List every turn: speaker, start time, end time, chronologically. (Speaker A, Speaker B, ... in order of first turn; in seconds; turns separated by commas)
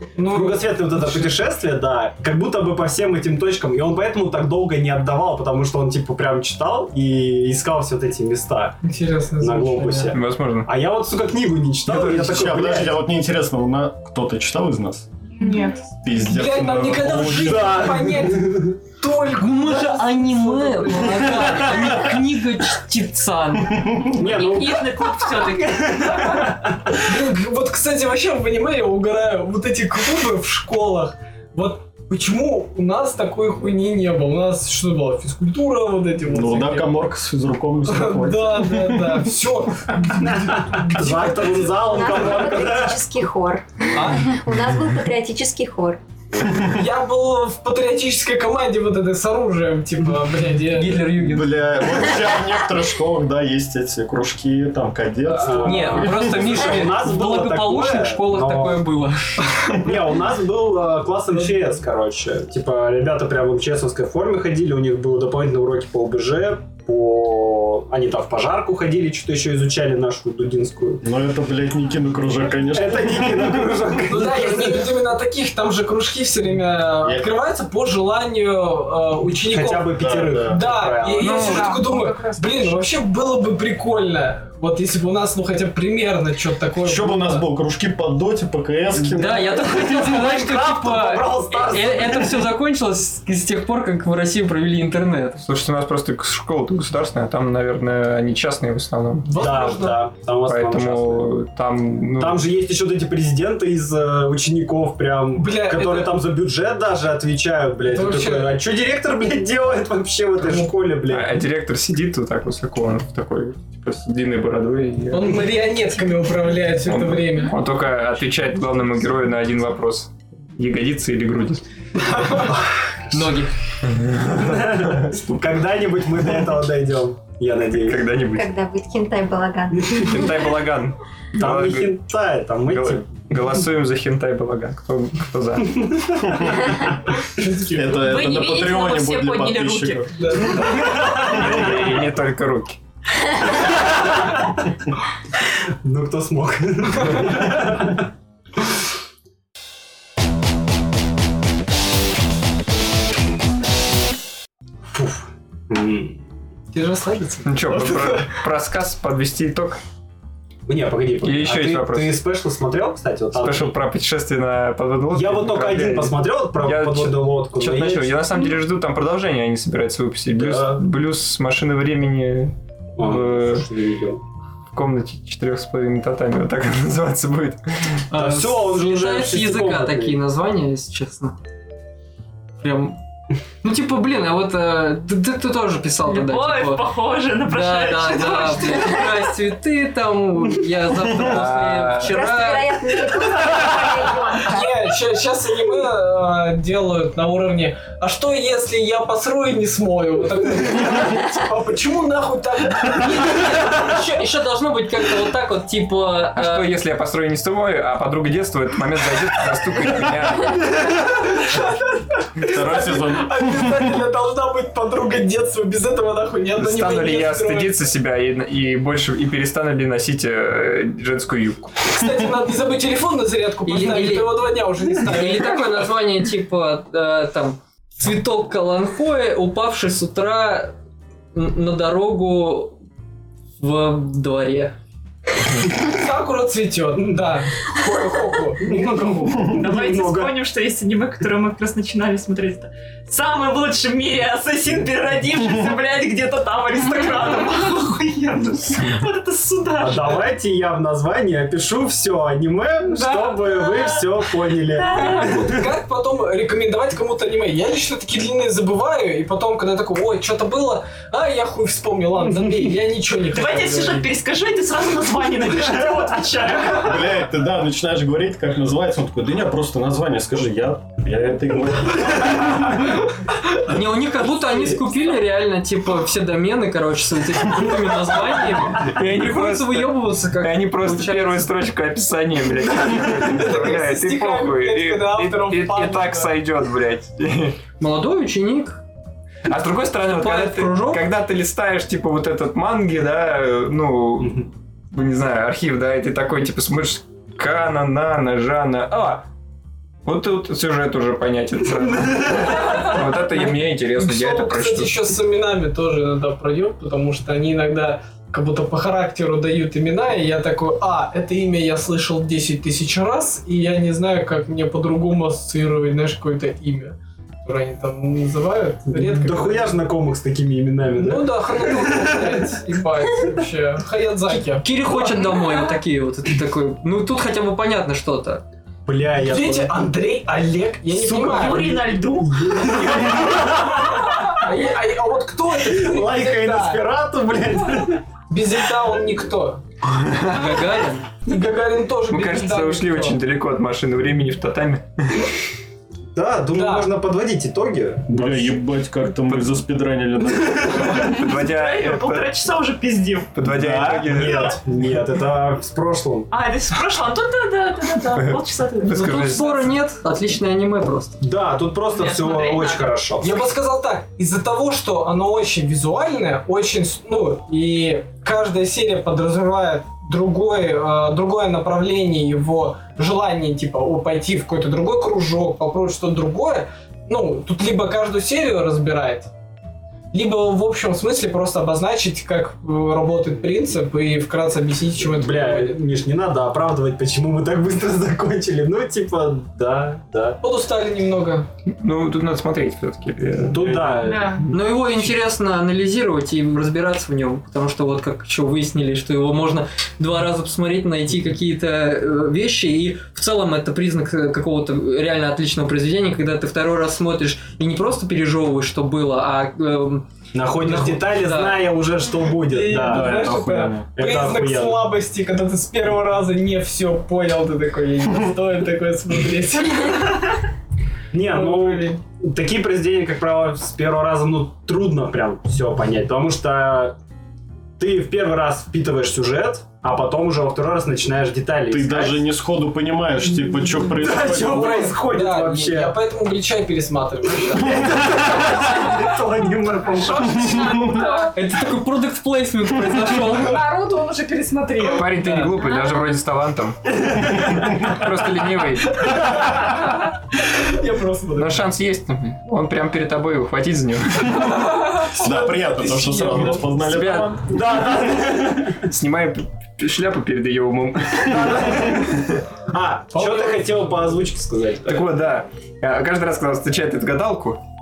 Speaker A: 0.2-1.3, Speaker B: 0.3-8.8, Speaker A: 8.8-10.1, Speaker B: 9.4-13.0, Speaker C: 10.1-10.7, Speaker D: 11.9-15.1, Speaker E: 15.4-15.9, Speaker D: 16.0-18.1, Speaker A: 16.3-22.0, Speaker B: 17.1-18.8, Speaker F: 19.4-24.0, Speaker B: 24.1-27.0, Speaker G: 24.2-26.5, Speaker A: 26.9-36.9, Speaker D: 36.3-39.3, Speaker A: 37.9-41.8, Speaker B: 40.1-43.0, Speaker H: 41.8-46.0, Speaker A: 43.9-44.3, Speaker A: 46.7-51.1, Speaker F: 50.6-51.6, Speaker D: 51.2-56.8, Speaker B: 55.3-58.9, Speaker F: 55.6-59.7, Speaker B: 59.8-71.0, Speaker D: 71.0-73.9, Speaker B: 72.7-74.9, Speaker A: 74.1-79.9, Speaker D: 77.0-77.3, Speaker B: 79.5-81.5, Speaker D: 80.0-80.6, Speaker A: 80.5-87.4, Speaker E: 81.2-82.8, Speaker C: 81.2-81.8, Speaker D: 86.8-89.6, Speaker F: 89.1-95.4, Speaker B: 89.3-92.5, Speaker C: 95.4-99.3, Speaker A: 99.2-100.0, Speaker B: 99.3-101.3, Speaker C: 100.5-102.5, Speaker B: 102.2-111.3, Speaker A: 105.4-106.2, Speaker A: 107.9-108.5, Speaker A: 110.4-110.7, Speaker C: 111.1-115.5, Speaker A: 115.1-117.5, Speaker C: 116.8-121.6, Speaker A: 122.1-122.5, Speaker F: 123.1-123.5, Speaker C: 123.8-125.1, Speaker B: 124.4-128.0, Speaker C: 127.8-128.5, Speaker H: 128.3-130.4, Speaker C: 129.9-132.0, Speaker B: 131.4-133.1, Speaker C: 132.7-136.0, Speaker B: 135.8-136.1, Speaker A: 137.3-138.1, Speaker D: 137.7-140.3, Speaker G: 137.9-140.1, Speaker A: 140.2-140.9, Speaker B: 140.7-142.0, Speaker C: 141.1-142.8, Speaker B: 143.7-144.6, Speaker B: 145.8-148.1, Speaker B: 154.9-156.2, Speaker A: 156.7-158.3, Speaker C: 157.5-159.8, Speaker B: 160.7-163.8, Speaker C: 161.2-162.2, Speaker C: 163.3-173.7, Speaker B: 165.1-168.3, Speaker B: 170.4-170.8, Speaker B: 173.0-174.2, Speaker C: 174.7-178.0, Speaker F: 178.1-181.4, Speaker B: 178.2-180.2, Speaker F: 182.6-183.0, Speaker F: 183.6-186.9, Speaker G: 186.0-189.3, Speaker F: 187.4-192.7, Speaker C: 191.2-192.2, Speaker H: 192.0-194.7, Speaker A: 194.4-203.9, Speaker F: 202.9-206.7, Speaker C: 206.3-210.9, Speaker A: 210.8-217.8, Speaker D: 212.4-213.9, Speaker C: 216.6-221.8, Speaker A: 221.8-225.6, Speaker F: 223.7-230.7, Speaker F: 231.3-232.8, Speaker F: 233.6-234.7, Speaker A: 235.7-238.7, Speaker B: 238.6-240.3, Speaker G: 239.4-250.3, Speaker B: 249.8-255.6, Speaker G: 252.9-254.2, Speaker G: 254.7-255.4, Speaker A: 255.3-264.1, Speaker G: 263.3-267.1, Speaker D: 266.8-272.8, Speaker F: 273.6-281.5, Speaker C: 278.8-287.6, Speaker A: 282.9-286.3, Speaker F: 287.8-288.8, Speaker C: 289.5-299.2, Speaker F: 290.1-291.1, Speaker B: 294.2-294.5, Speaker C: 300.1-305.1, Speaker A: 302.5-319.8, Speaker B: 318.9-322.6, Speaker A: 321.0-325.0, Speaker F: 324.3-328.4, Speaker B: 328.9-329.7, Speaker A: 329.2-331.6, Speaker G: 330.9-333.5, Speaker B: 331.4-334.4, Speaker A: 334.4-336.8, Speaker B: 335.6-338.0, Speaker A: 338.3-339.6, Speaker C: 340.1-340.6, Speaker F: 340.3-341.1, Speaker A: 341.2-343.2, Speaker C: 342.1-345.3, Speaker B: 346.1-348.6, Speaker A: 346.5-346.9, Speaker D: 348.1-350.9, Speaker C: 349.3-349.6, Speaker G: 350.8-353.4, Speaker C: 351.0-352.4, Speaker C: 353.4-354.6, Speaker D: 353.5-354.6, Speaker B: 353.5-356.3, Speaker G: 356.3-359.4, Speaker C: 358.1-359.8, Speaker F: 358.9-361.2, Speaker B: 361.2-363.4, Speaker G: 361.9-363.0, Speaker A: 363.2-379.3, Speaker A: 380.1-385.8, Speaker B: 385.1-390.4, Speaker A: 390.4-391.5, Speaker C: 391.8-394.2, Speaker B: 393.4-394.4, Speaker G: 394.0-394.5, Speaker F: 394.5-410.1, Speaker B: 410.3-413.4, Speaker A: 410.7-411.0, Speaker F: 411.0-411.6, Speaker A: 412.5-420.4, Speaker D: 412.7-413.9, Speaker B: 414.0-414.8, Speaker B: 421.1-427.0, Speaker A: 421.3-422.0, Speaker B: 427.8-432.3, Speaker D: 431.7-434.9, Speaker B: 433.9-436.0, Speaker A: 434.2-438.0, Speaker B: 437.6-440.8, Speaker G: 440.0-441.4, Speaker F: 441.3-443.6, Speaker E: 443.4-445.1, Speaker C: 444.9-449.7, Speaker G: 445.6-446.1, Speaker A: 449.2-449.8, Speaker A: 450.4-451.7, Speaker C: 451.4-454.7, Speaker A: 454.4-456.8, Speaker D: 455.1-457.5, Speaker C: 456.9-457.4, Speaker B: 457.4-458.8, Speaker C: 458.9-462.4, Speaker B: 461.2-465.1, Speaker A: 463.1-463.8, Speaker C: 464.9-467.6